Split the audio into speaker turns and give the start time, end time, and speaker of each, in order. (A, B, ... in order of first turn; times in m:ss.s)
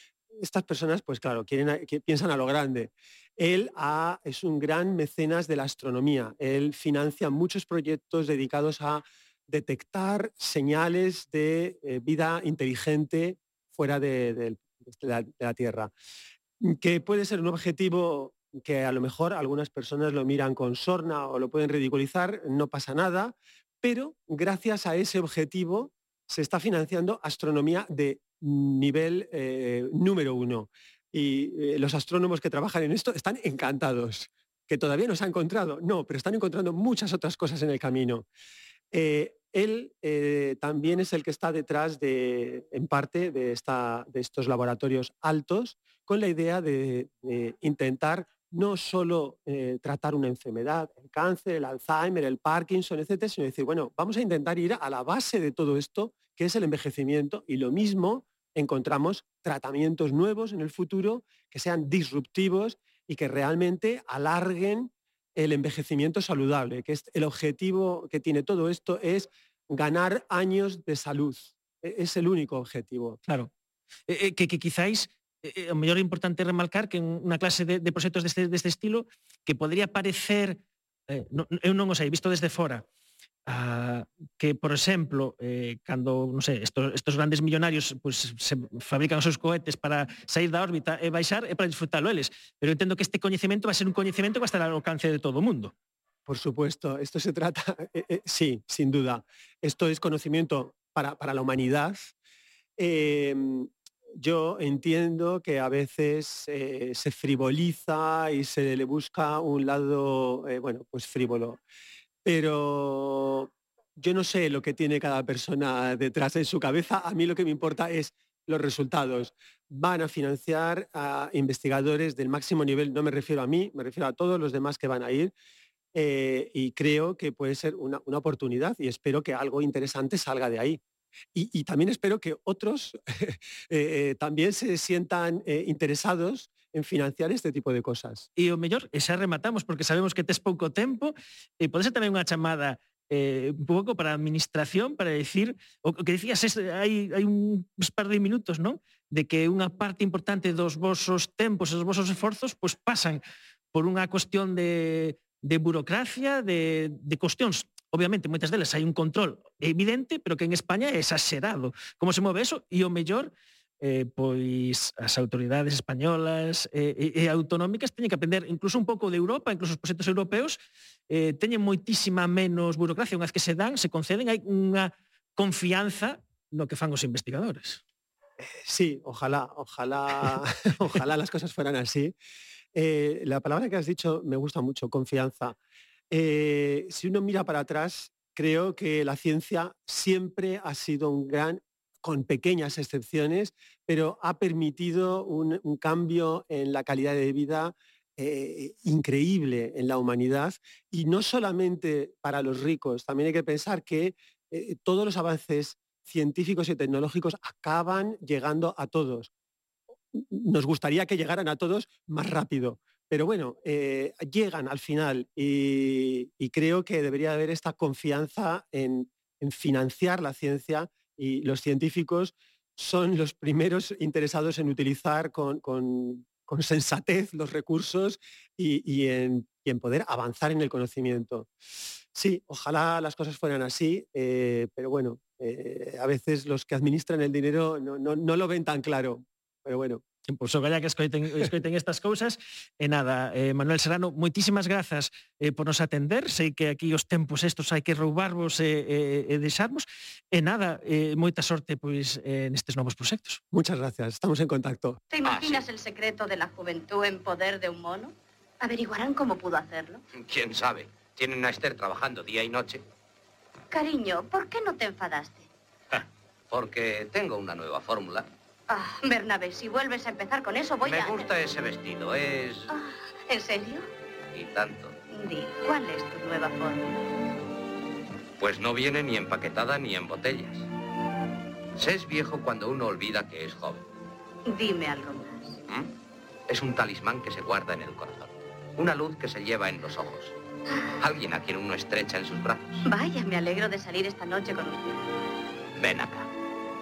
0:00.4-0:15.9 A
0:16.6-0:38.3 A
0:38.9-1:13.2 A
1:14.1-1:22.8 B
1:23.4-1:35.7 B
1:36.3-1:42.1 A
1:42.8-1:51.6 A
1:52.2-2:05.3 A
2:05.9-2:10.8 A
2:11.3-2:18.2 A
2:18.4-2:33.2 B
2:33.7-2:50.6 B
2:51.1-2:57.8 B
2:58.6-3:02.1 A
3:02.7-3:05.6 A
3:06.1-3:29.3 A
3:30.1-3:51.5 A
3:52.1-4:00.0 A
4:00.3-4:13.4 B
4:13.5-4:15.0 A
4:15.1-4:20.0 C
4:15.2-4:15.6 D
4:20.2-4:22.8 D
4:23.7-4:25.5 C
4:25.9-4:28.2 D
4:28.7-4:31.3 C
4:30.8-4:32.7 D
4:32.7-4:33.9 C
4:34.3-4:34.9 D
4:35.1-4:37.0 C
4:38.4-4:40.6 D
4:41.8-4:43.8 D
4:44.4-4:45.6 C
4:46.5-4:50.3 D
4:51.0-4:52.8 D
4:52.8-4:55.0 C
4:55.8-4:56.3 D